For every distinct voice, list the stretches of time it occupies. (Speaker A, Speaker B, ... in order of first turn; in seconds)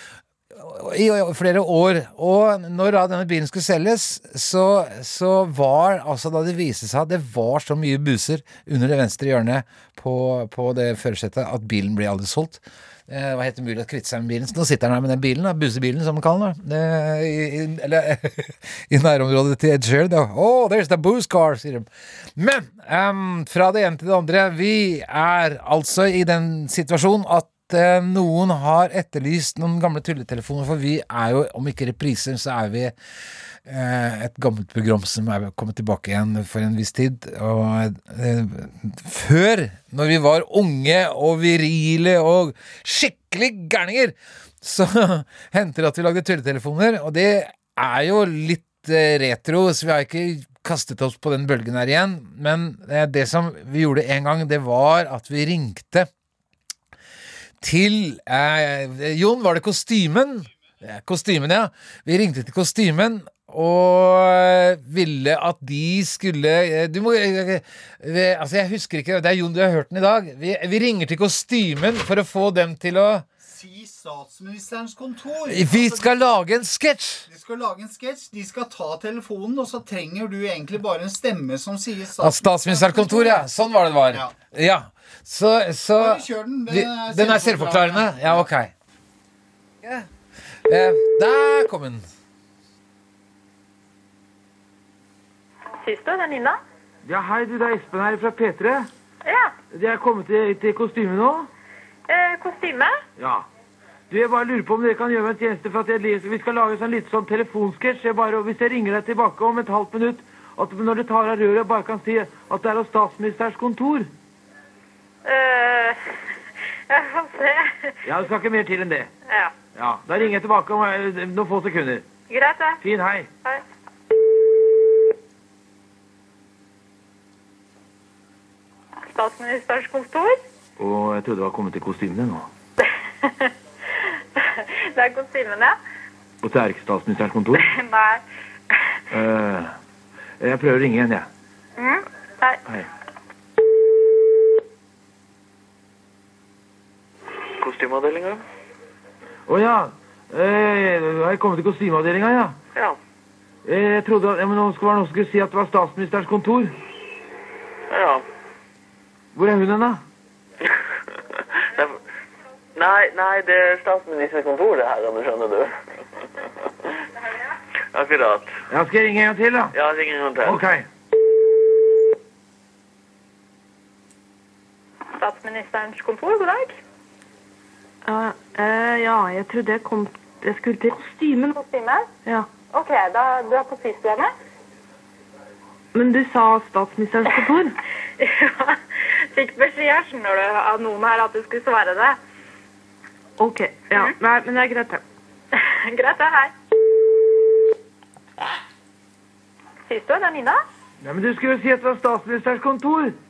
Speaker A: 0.6-32.9, 33.6-56.1, 57.6-73.2, 75.5-77.3, 82.2-88.7, 90.7-92.1
Speaker B: 73.4-76.1, 77.3-83.4, 86.0-88.4
Speaker C: 95.8-96.6, 99.2-99.5, 102.1-103.0, 115.2-116.0, 116.9-118.0, 119.3-119.5, 122.3-122.8, 129.1-130.4, 133.2-133.5, 134.3-135.8, 137.6-138.2, 141.8-142.6, 175.2-176.8, 181.5-182.1, 182.7-184.3, 188.2-192.2, 195.6-196.5, 199.9-200.6
Speaker D: 97.1-98.9, 99.7-101.5, 103.2-103.5, 104.1-114.1, 118.0-119.1, 119.8-122.0, 122.8-123.3, 130.8-132.5, 136.4-137.7, 139.1-139.7, 140.4-141.3, 149.5-152.6, 153.6-156.7, 159.3-160.0, 168.7-169.7, 170.4-170.8, 201.0-203.2
Speaker E: 147.6-148.4, 157.9-158.2, 162.8-165.7, 167.9-168.5, 169.7-170.7
Speaker F: 178.1-181.6, 185.9-187.8, 193.4-195.0